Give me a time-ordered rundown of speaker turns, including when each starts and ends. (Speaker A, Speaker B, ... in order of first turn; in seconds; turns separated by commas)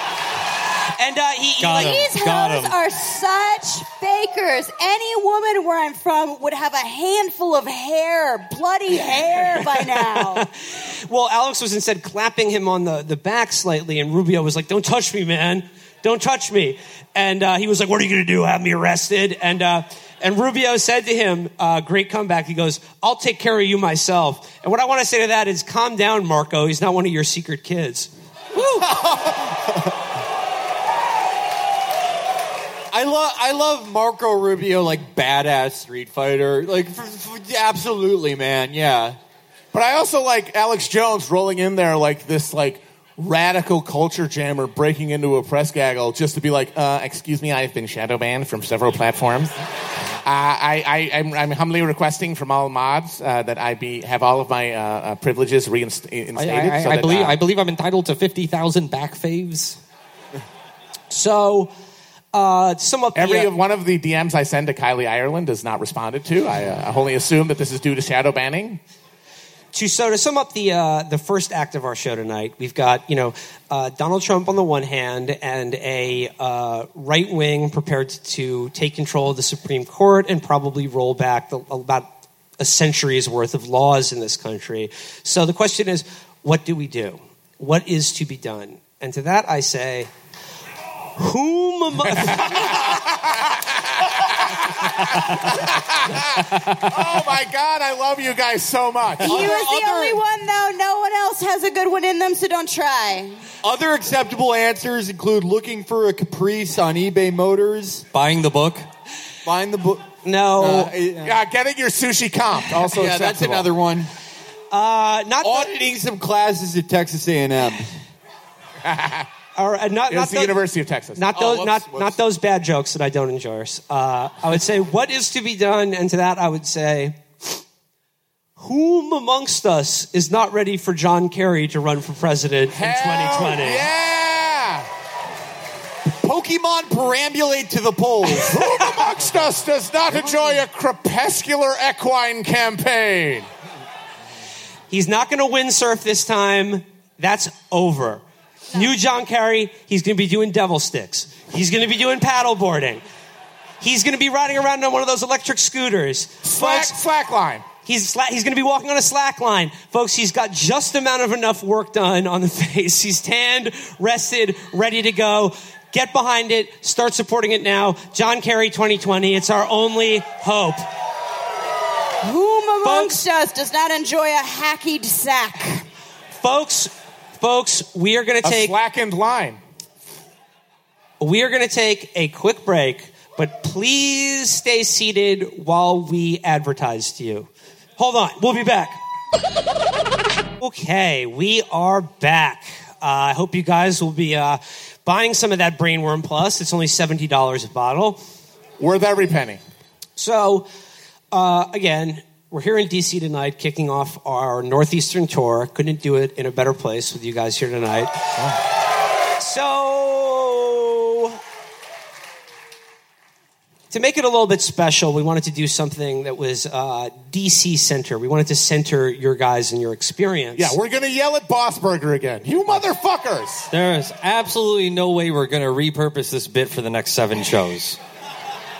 Speaker A: 0.9-2.0, Speaker B: 1.6-2.7, Speaker C: 1.7-10.5, Speaker A: 10.0-28.8, Speaker D: 28.6-29.9, Speaker D: 32.9-39.2, Speaker E: 39.7-49.5, Speaker E: 50.2-57.4, Speaker B: 56.3-59.8, Speaker A: 61.1-61.7, Speaker A: 62.3-63.5, Speaker E: 63.1-68.8, Speaker A: 69.7-90.1, Speaker A: 91.2-92.9, Speaker E: 92.2-99.4, Speaker B: 96.5-96.8, Speaker D: 99.2-100.2, Speaker C: 99.2-103.4, Speaker D: 103.6-108.0, Speaker B: 108.1-108.8, Speaker D: 109.4-111.3, Speaker A: 110.2-110.9, Speaker E: 111.2-113.7, Speaker D: 112.9-114.1, Speaker A: 114.7-115.7, Speaker D: 115.4-117.9, Speaker E: 118.8-119.3, Speaker A: 119.5-120.6, Speaker E: 120.1-121.2, Speaker A: 121.1-127.6, Speaker D: 121.3-122.2, Speaker A: 128.6-133.8, Speaker E: 132.7-134.9, Speaker D: 136.2-138.5, Speaker E: 138.4-143.5, Speaker A: 144.9-153.0, Speaker A: 153.8-157.0, Speaker E: 156.4-157.6, Speaker A: 157.8-170.9, Speaker C: 172.2-175.8, Speaker A: 172.8-173.2, Speaker A: 176.3-178.8, Speaker E: 178.4-179.6, Speaker A: 181.2-189.0, Speaker A: 190.6-198.2, Speaker E: 198.8-199.6, Speaker A: 200.2-200.7, Speaker A: 201.3-208.3, Speaker A: 209.4-211.4, Speaker A: 213.9-220.8, Speaker E: 220.6-223.7, Speaker B: 223.7-228.0